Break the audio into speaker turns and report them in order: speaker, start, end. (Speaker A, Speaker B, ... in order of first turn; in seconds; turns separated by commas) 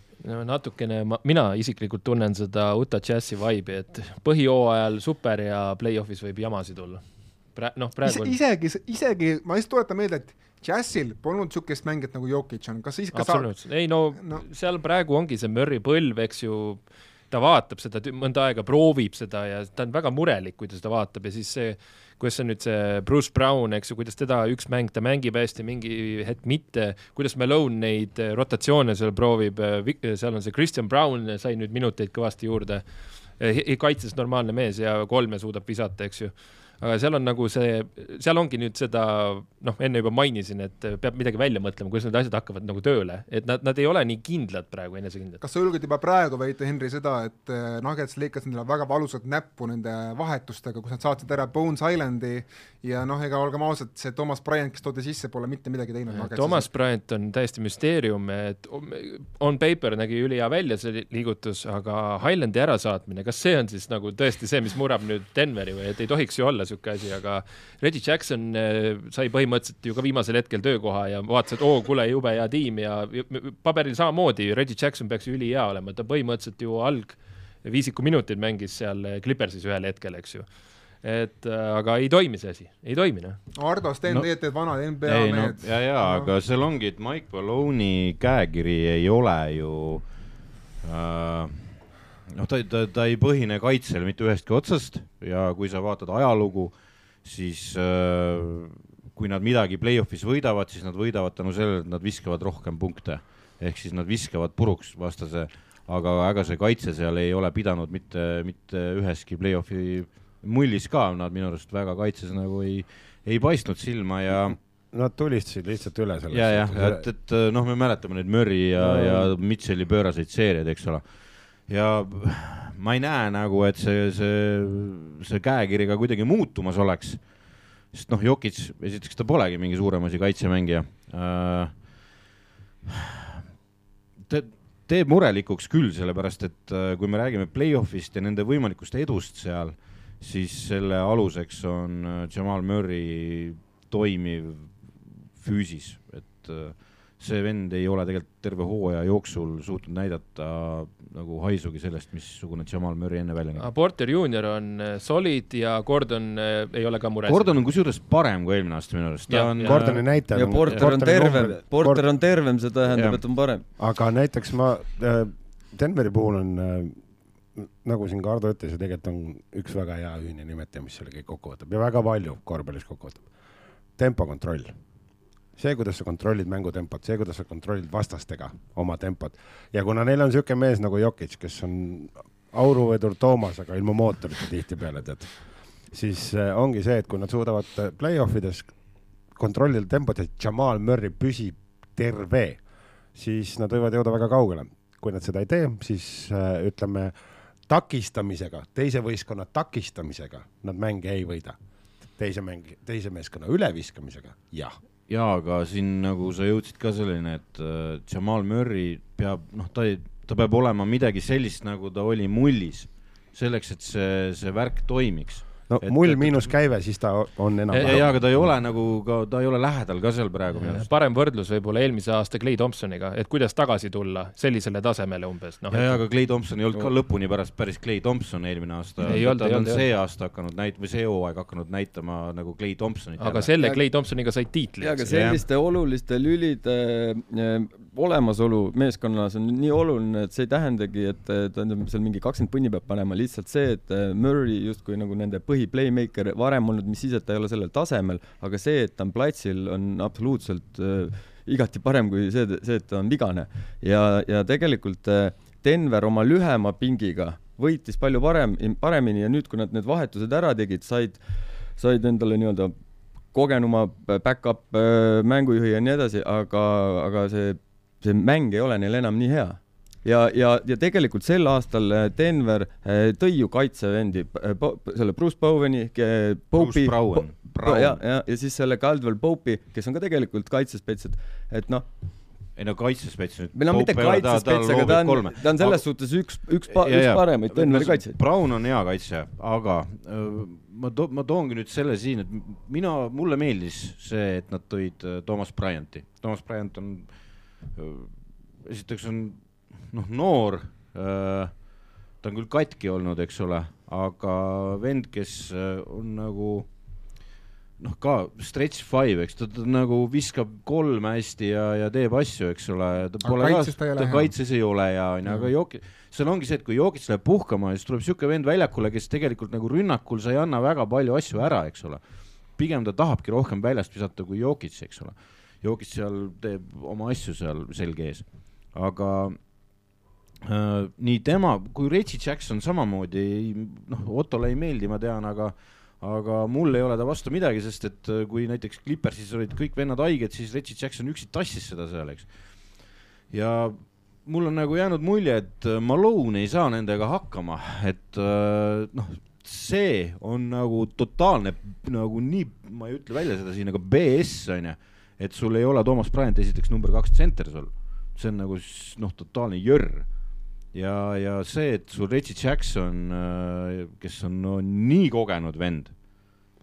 Speaker A: 0.2-8.3, Speaker B: 8.0-14.4, Speaker A: 13.1-45.4, Speaker B: 45.4-56.7, Speaker A: 56.1-83.4, Speaker B: 83.5-86.3, Speaker C: 84.0-84.3, Speaker C: 85.0-90.1, Speaker C: 90.8-114.6, Speaker D: 114.9-117.0, Speaker C: 116.3-121.0, Speaker D: 118.8-119.3, Speaker C: 121.7-127.4, Speaker C: 127.9-131.8, Speaker C: 132.9-133.4, Speaker C: 134.3-153.7, Speaker A: 153.6-157.6, Speaker C: 157.2-160.9, Speaker A: 159.3-160.1, Speaker D: 159.6-162.0, Speaker E: 160.3-163.7, Speaker C: 162.9-163.2, Speaker D: 163.8-173.3, Speaker D: 173.9-174.8, Speaker D: 175.5-201.6, Speaker D: 202.1-204.8, Speaker C: 205.1-216.6, Speaker D: 215.7-218.6, Speaker A: 217.7-218.0, Speaker C: 217.8-220.9, Speaker A: 220.6-226.0, Speaker C: 225.7-233.5, Speaker A: 229.0-229.8, Speaker A: 233.2-235.1, Speaker E: 234.8-281.9, Speaker C: 235.1-235.4, Speaker C: 276.5-278.0, Speaker C: 282.6-297.1, Speaker E: 283.5-288.2, Speaker C: 297.7-301.7, Speaker C: 302.2-306.7, Speaker C: 307.8-322.0, Speaker B: 313.2-314.3, Speaker B: 315.2-315.5, Speaker C: 322.5-329.5, Speaker C: 330.4-342.3, Speaker C: 343.3-360.1, Speaker C: 360.7-365.9